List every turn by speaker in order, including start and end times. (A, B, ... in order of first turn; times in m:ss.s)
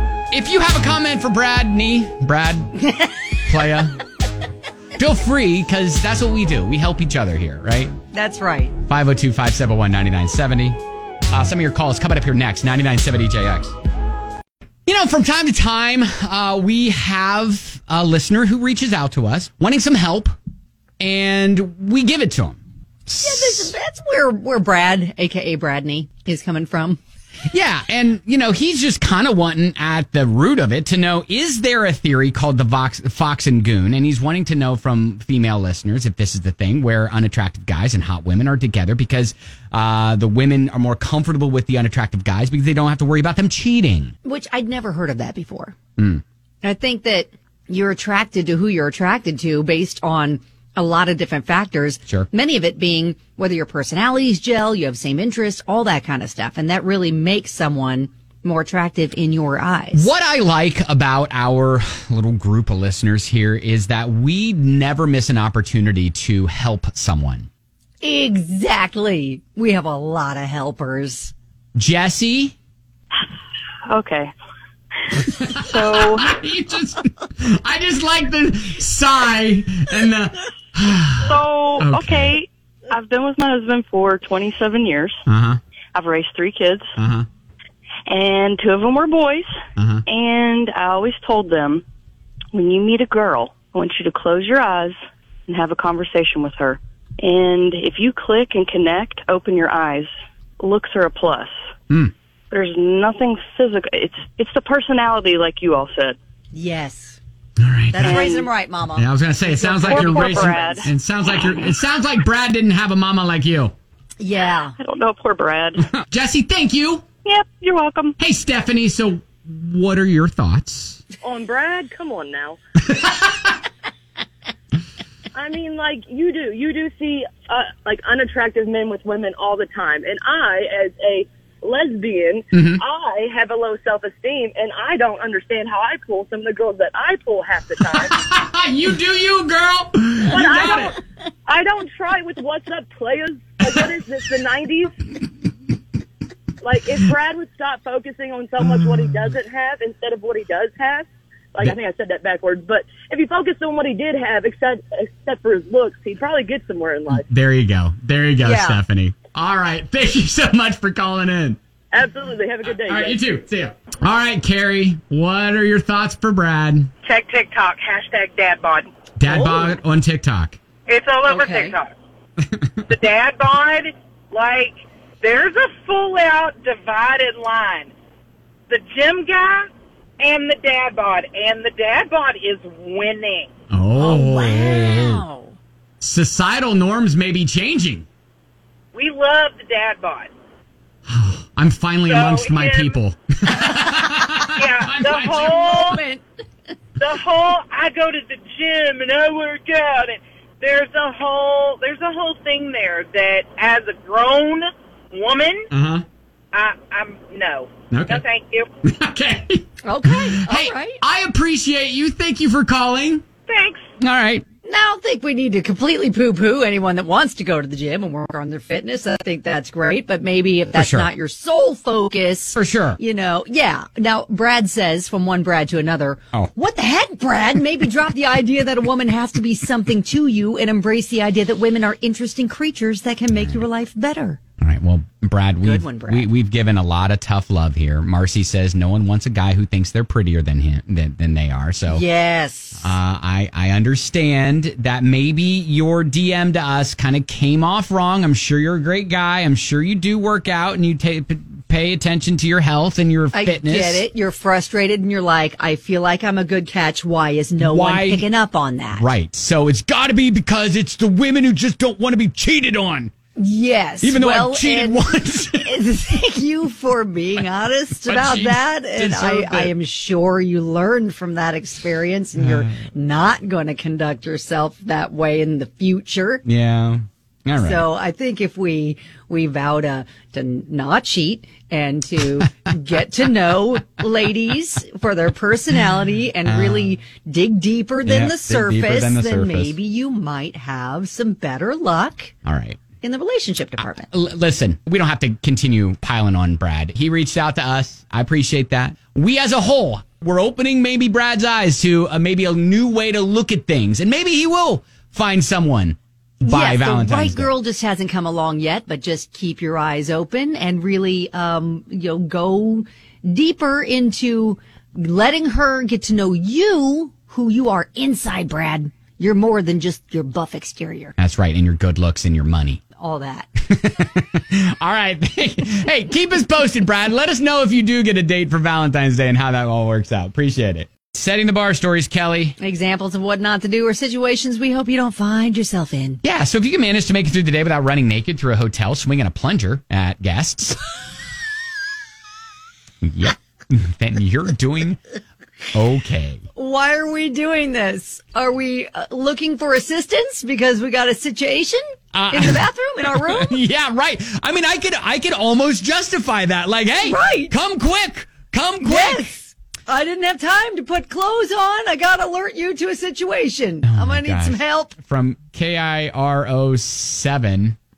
0:00.3-0:02.7 A
0:02.8-0:03.1 B
0:03.5-0:04.0 A
0:05.0-0:07.9 A
0:08.1-0:08.7 B
0:08.9-0:10.8 A
0:11.3-0:13.8 A
0:14.9-0:20.3 A
0:21.0-0:23.7 A
0:23.2-0:27.0 B
0:27.5-0:44.2 A
0:44.2-0:45.8 B
0:46.0-0:46.2 A
0:46.6-1:00.1 B
0:59.9-1:07.5 A
1:08.0-1:11.3 B
1:11.8-1:12.6 A
1:13.9-1:14.3 C
1:15.3-1:22.4 A
1:15.6-1:16.3 C
1:21.2-1:25.2 C
1:25.3-1:25.6 A
1:26.0-1:26.9 C
1:27.0-1:27.3 A
1:28.1-1:29.5 C
1:29.8-1:30.0 A
1:30.1-1:31.8 C
1:32.5-1:41.5 C
1:42.5-1:46.2 C
1:46.5-1:47.2 B
1:47.6-1:48.3 A
1:47.9-1:50.9 B
1:48.0-1:48.5 C
1:49.0-1:53.7 A
1:49.8-1:50.9 C
1:54.2-1:54.8 B
1:54.8-1:55.8 C
1:56.0-1:57.1 A
1:57.3-1:58.2 C
1:58.2-2:01.0 A
2:01.2-2:02.6 D
2:02.8-2:03.5 A
2:05.3-2:18.1 D
2:12.5-2:12.8 A
2:17.9-2:21.0 A
2:20.3-2:24.9 D
2:26.6-2:37.2 D
2:37.1-2:41.6 A
2:38.4-2:38.8 B
2:41.9-2:43.2 D
2:42.6-2:46.9 A
2:47.0-2:48.9 E
2:49.2-2:50.6 A
2:49.3-2:49.7 B
2:50.9-2:51.9 E
2:51.3-2:51.8 B
2:52.9-2:57.9 E
2:58.7-2:59.7 E
3:00.2-3:03.5 E
3:03.7-3:05.2 A
3:04.0-3:05.6 B
3:06.0-3:08.1 A
3:08.9-3:10.3 E
3:11.1-3:15.9 A
3:12.0-3:13.0 E
3:14.0-3:14.4 B
3:14.5-3:16.0 E
3:15.2-3:16.2 B
3:17.0-3:25.7 E
3:25.7-3:26.0 A
3:26.5-3:28.7 E
3:27.9-3:28.2 A
3:28.8-3:33.2 A
3:29.8-3:31.0 B
3:33.5-3:33.9 E
3:34.0-3:34.4 A
3:34.6-3:54.4 B
3:40.8-3:41.1 A
3:42.6-3:43.0 A
3:53.3-3:53.6 A
3:54.6-4:02.0 A
3:55.6-3:56.3 B
4:01.9-4:03.0 B
4:02.8-4:14.0 A
4:13.3-4:19.1 B
4:17.6-4:18.3 A
4:19.0-4:23.1 A
4:23.4-4:36.4 B
4:24.0-4:25.7 A
4:28.0-4:29.7 A
4:32.4-4:32.8 A
4:36.4-4:37.9 A
4:37.6-4:52.3 B
4:46.4-4:46.9 A
4:48.0-4:49.8 A
4:52.4-4:52.8 A
4:53.0-4:54.1 B
4:53.8-5:07.5 A
5:06.4-5:21.1 B
5:21.2-5:22.8 A
5:23.0-5:23.5 B
5:23.7-5:32.6 A
5:32.6-5:36.2 B
5:36.2-5:40.8 A
5:43.0-5:45.0 A
5:45.7-5:46.4 A
5:46.6-5:53.6 B
5:52.1-5:59.3 A
5:57.0-5:57.5 B
5:58.8-6:05.0 B
6:03.8-6:07.8 A